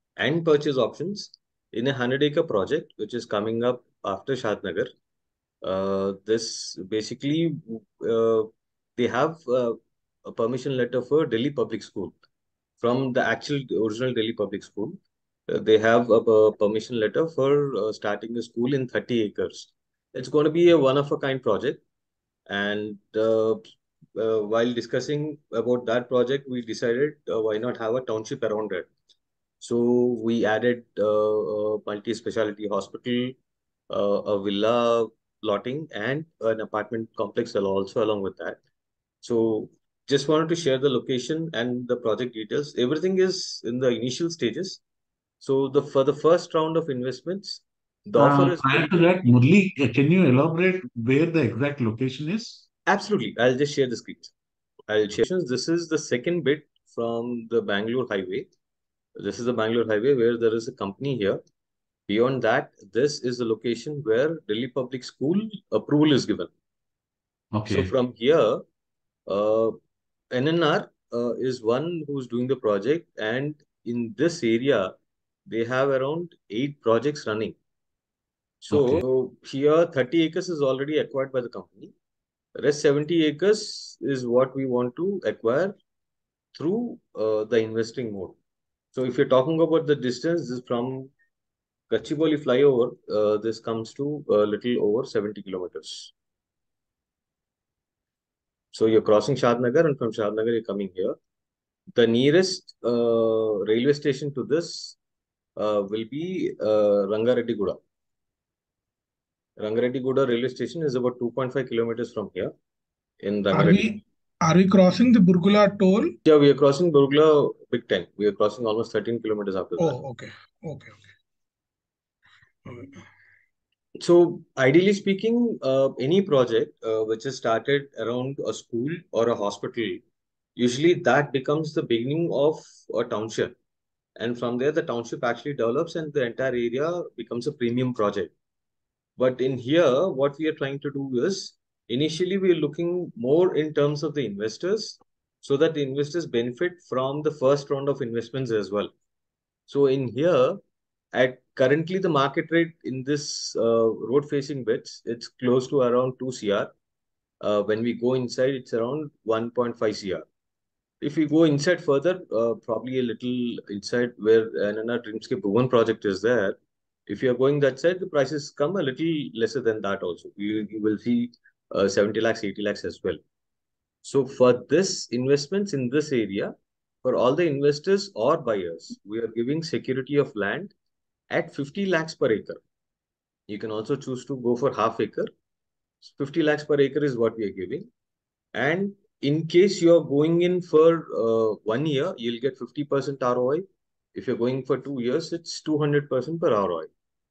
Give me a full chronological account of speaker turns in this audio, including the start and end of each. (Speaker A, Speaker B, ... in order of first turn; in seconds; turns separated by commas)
Speaker A: 0.2-4.9, Speaker A: 5.6-12.2, Speaker A: 12.8-21.8, Speaker A: 22.5-23.6, Speaker A: 24.2-28.9, Speaker A: 29.6-33.4, Speaker A: 33.9-38.6, Speaker A: 39.2-44.8, Speaker A: 45.4-49.0, Speaker B: 48.2-52.6, Speaker A: 52.9-54.3, Speaker A: 54.9-58.5, Speaker A: 59.2-61.4, Speaker A: 62.1-66.5, Speaker B: 67.5-67.9, Speaker A: 67.7-68.6, Speaker A: 69.3-69.8, Speaker A: 70.3-74.9, Speaker A: 75.5-77.6, Speaker A: 78.6-81.9, Speaker B: 78.7-79.0, Speaker A: 82.6-85.8, Speaker A: 86.5-88.4, Speaker A: 88.9-91.1, Speaker A: 91.9-96.1, Speaker A: 98.7-101.2, Speaker A: 102.0-105.0, Speaker A: 105.6-107.8, Speaker A: 109.6-112.5, Speaker A: 113.2-114.0, Speaker C: 113.5-116.1, Speaker A: 116.2-120.0, Speaker C: 119.8-121.1, Speaker C: 122.7-123.0, Speaker A: 124.0-130.0, Speaker A: 130.6-133.6, Speaker A: 134.2-138.3, Speaker A: 139.2-148.9, Speaker A: 149.7-150.6, Speaker A: 151.1-156.7, Speaker A: 157.4-160.3, Speaker A: 161.0-173.2, Speaker A: 174.0-180.7, Speaker A: 181.3-182.6, Speaker A: 183.5-185.3, Speaker A: 186.0-187.9, Speaker A: 188.5-193.6, Speaker A: 194.2-196.9